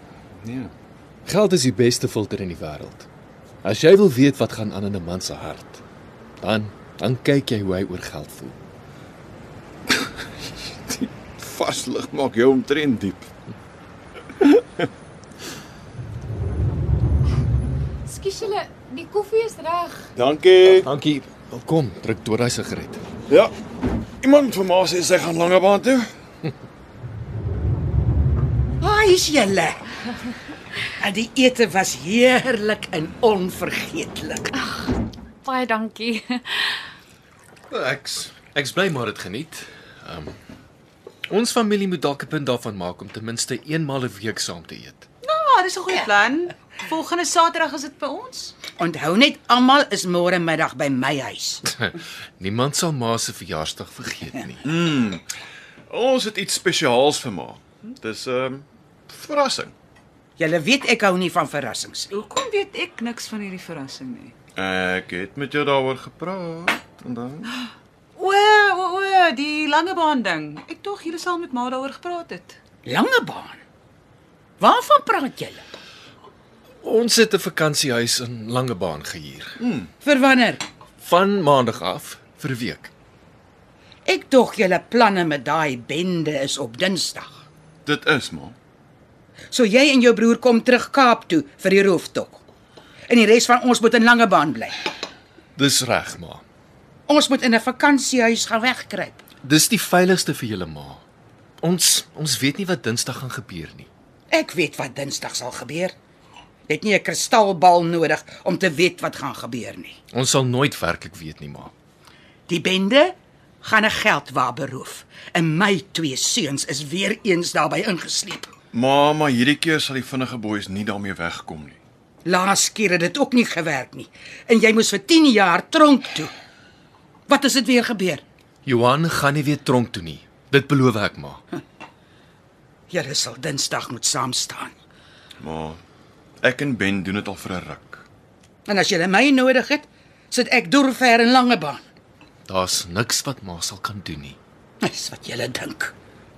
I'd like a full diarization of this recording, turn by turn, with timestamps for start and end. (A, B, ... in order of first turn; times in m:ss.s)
0:00.4-0:00.7 A
0:01.2-0:03.1 B
0:03.6-0:05.8 B
0:06.4-0:08.6 B
0:10.9-0:13.3 A
0:18.0-0:20.1 C
0:20.2-0:20.9 A
0:20.8-0:23.0 B
0:24.2-0:26.1 A
0:28.8-0:29.8 D
0:31.0-0:34.5 D
0:34.6-0:36.8 C
0:37.7-0:40.3 B
0:41.3-0:45.0 B
0:45.2-0:48.6 E
0:48.8-0:51.6 D
0:51.8-0:54.6 B
0:54.6-0:55.2 A
0:55.9-0:59.7 A
1:00.4-1:02.1 D
1:02.1-1:04.3 E
1:04.6-1:07.4 A
1:08.2-1:12.6 E
1:12.8-1:13.6 D
1:14.6-1:15.6 D
1:16.8-1:19.6 B
1:19.6-1:19.9 A
1:20.0-1:20.6 D
1:21.0-1:22.9 B
1:24.0-1:27.3 D
1:27.8-1:28.6 A
1:29.5-1:32.4 D
1:33.1-1:34.7 D
1:35.6-1:36.4 B
1:37.1-1:39.2 D
1:39.4-1:41.0 B
1:41.6-1:43.9 B
1:44.3-1:45.9 D
1:46.7-1:50.0 D
1:50.1-1:51.7 B
1:52.5-1:58.5 D
1:58.7-2:01.8 A
2:02.2-2:06.3 D
2:07.3-2:08.2 D
2:08.6-2:11.4 B
2:12.9-2:14.7 D
2:15.4-2:15.8 A
2:16.4-2:18.0 A
2:18.6-2:21.8 D
2:22.5-2:24.4 B
2:24.8-2:25.9 D